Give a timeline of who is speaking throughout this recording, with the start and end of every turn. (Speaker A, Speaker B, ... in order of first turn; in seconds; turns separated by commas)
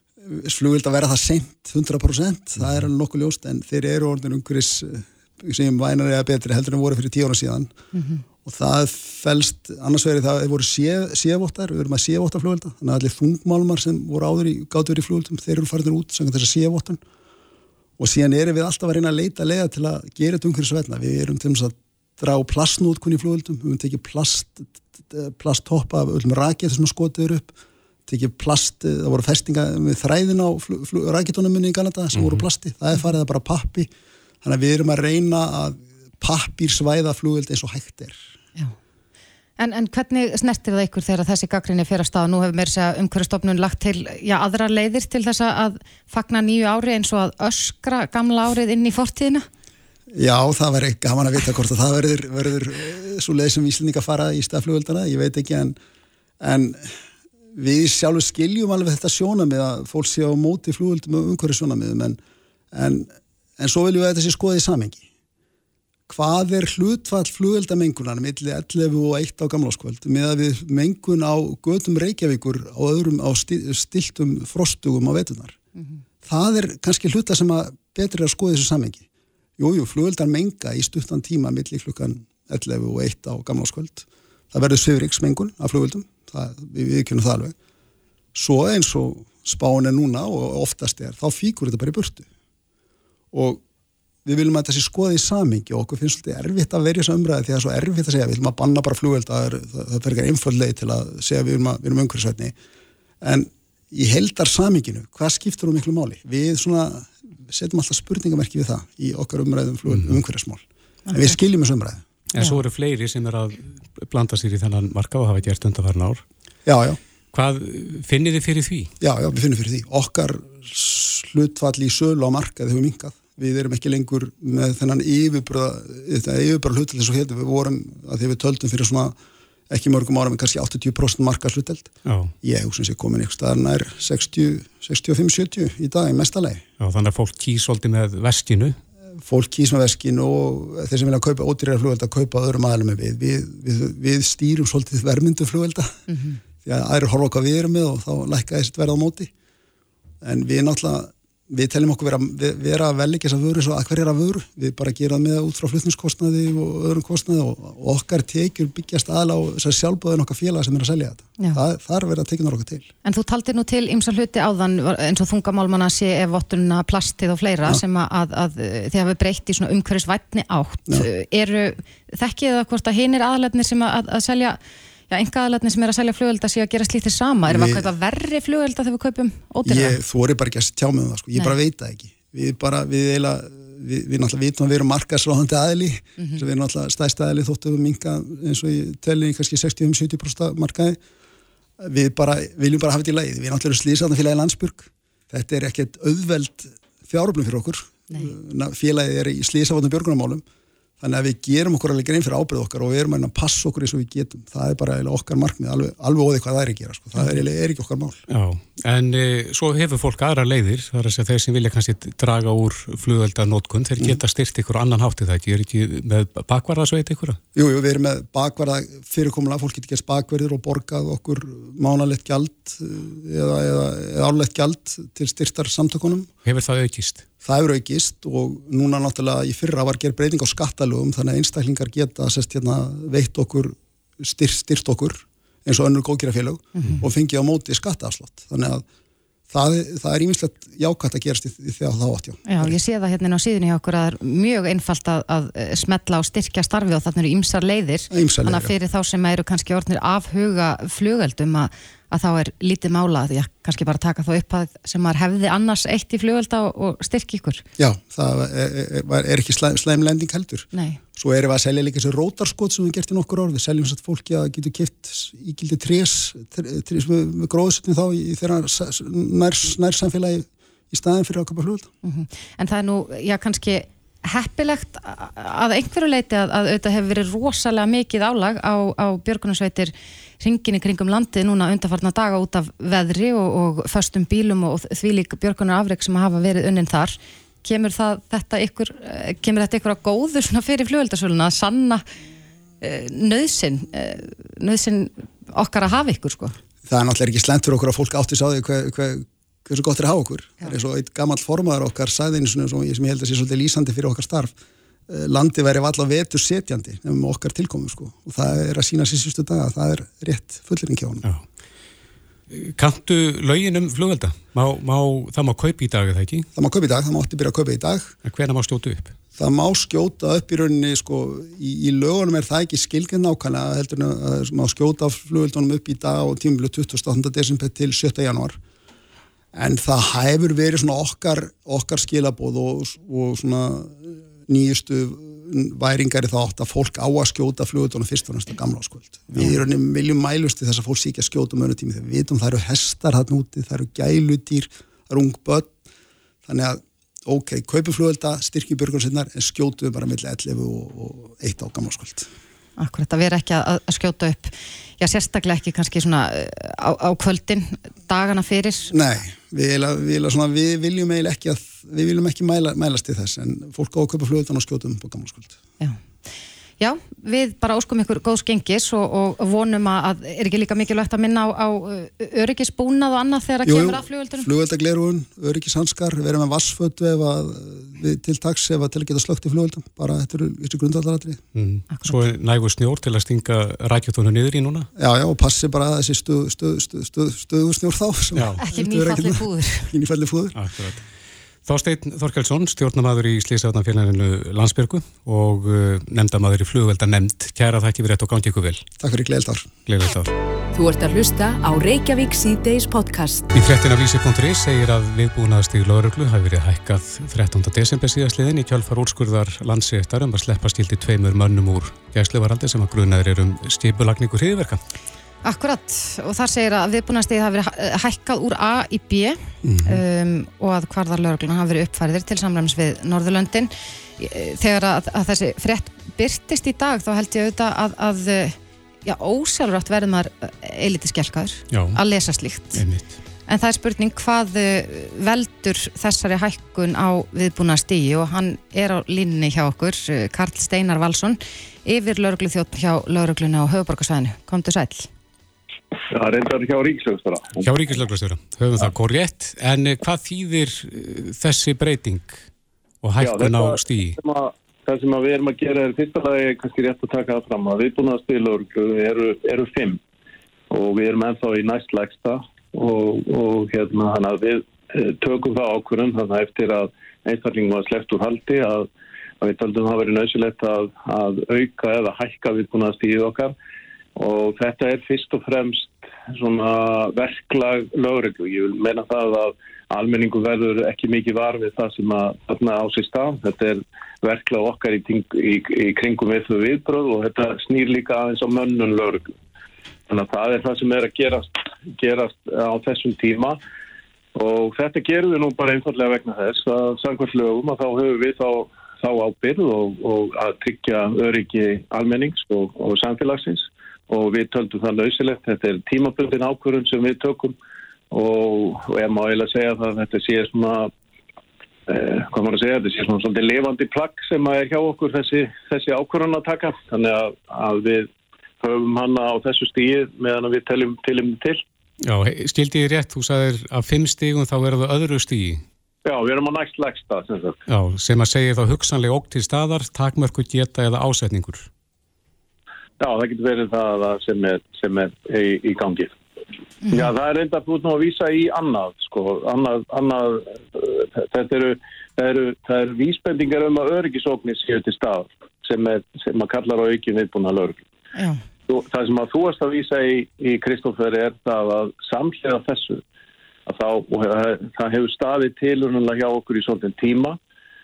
Speaker A: 0.2-7.7, Speaker B: 7.9-8.2, Speaker A: 8.4-17.0, Speaker A: 18.0-27.5, Speaker A: 28.1-33.9, Speaker C: 32.1-32.4, Speaker A: 34.4-38.2, Speaker B: 39.6-49.5, Speaker A: 50.1-55.8, Speaker A: 56.4-56.9, Speaker A: 57.5-62.2, Speaker A: 62.7-65.0, Speaker A: 66.1-75.6, Speaker A: 76.2-79.0, Speaker A: 79.6-87.5, Speaker A: 88.3-92.2, Speaker A: 93.3-93.6, Speaker A: 94.2-102.5, Speaker A: 103.2-112.0, Speaker C: 109.9-110.2, Speaker C: 112.3-116.2, Speaker A: 116.7-117.0, Speaker C: 117.3-118.9, Speaker A: 119.0-129.2, Speaker A: 129.7-136.6, Speaker C: 132.1-132.3, Speaker C: 136.8-138.8, Speaker A: 139.2-146.0, Speaker B: 146.1-146.4, Speaker A: 146.6-149.3, Speaker A: 150.2-162.9, Speaker B: 163.0-174.6, Speaker B: 175.1-180.0, Speaker A: 177.5-177.8, Speaker A: 179.6-191.0, Speaker A: 191.8-200.4, Speaker A: 201.0-208.2, Speaker C: 208.3-217.4, Speaker A: 217.5-226.3, Speaker C: 226.4-227.2, Speaker A: 227.4-238.8, Speaker B: 236.7-237.0, Speaker A: 239.5-242.7, Speaker B: 242.4-257.6, Speaker A: 248.1-248.7, Speaker A: 257.8-271.9, Speaker B: 260.7-261.0, Speaker B: 272.0-292.1, Speaker B: 292.8-296.6, Speaker A: 296.9-304.5, Speaker A: 305.1-311.2, Speaker C: 312.5-316.5, Speaker A: 316.5-318.1, Speaker C: 318.2-319.1, Speaker A: 319.4-328.6, Speaker A: 329.5-345.8, Speaker A: 346.4-352.3, Speaker B: 352.8-358.9, Speaker A: 358.9-365.5, Speaker B: 366.8-374.5, Speaker A: 373.6-381.4, Speaker C: 381.5-384.9, Speaker B: 381.9-382.2, Speaker A: 384.9-390.5, Speaker B: 388.6-389.9, Speaker C: 390.5-391.1, Speaker C: 391.6-398.9, Speaker A: 399.0-399.7, Speaker C: 399.9-400.3, Speaker D: 400.7-403.5, Speaker C: 403.5-414.8, Speaker B: 415.4-432.8, Speaker C: 419.6-420.0, Speaker C: 431.7-432.0, Speaker C: 432.7-433.1, Speaker B: 433.5-445.1, Speaker E: 446.1-447.7, Speaker C: 447.6-452.5, Speaker C: 453.0-454.2, Speaker E: 453.2-460.0, Speaker E: 460.7-468.9, Speaker E: 469.4-473.5, Speaker E: 474.1-489.3, Speaker E: 490.1-493.6, Speaker E: 494.3-507.5, Speaker E: 508.1-510.9, Speaker E: 511.9-518.1, Speaker E: 518.6-521.6, Speaker C: 522.0-525.6, Speaker E: 526.0-527.6, Speaker C: 527.7-531.7, Speaker E: 533.0-536.1, Speaker E: 536.9-547.8, Speaker E: 548.7-553.0, Speaker E: 553.6-557.4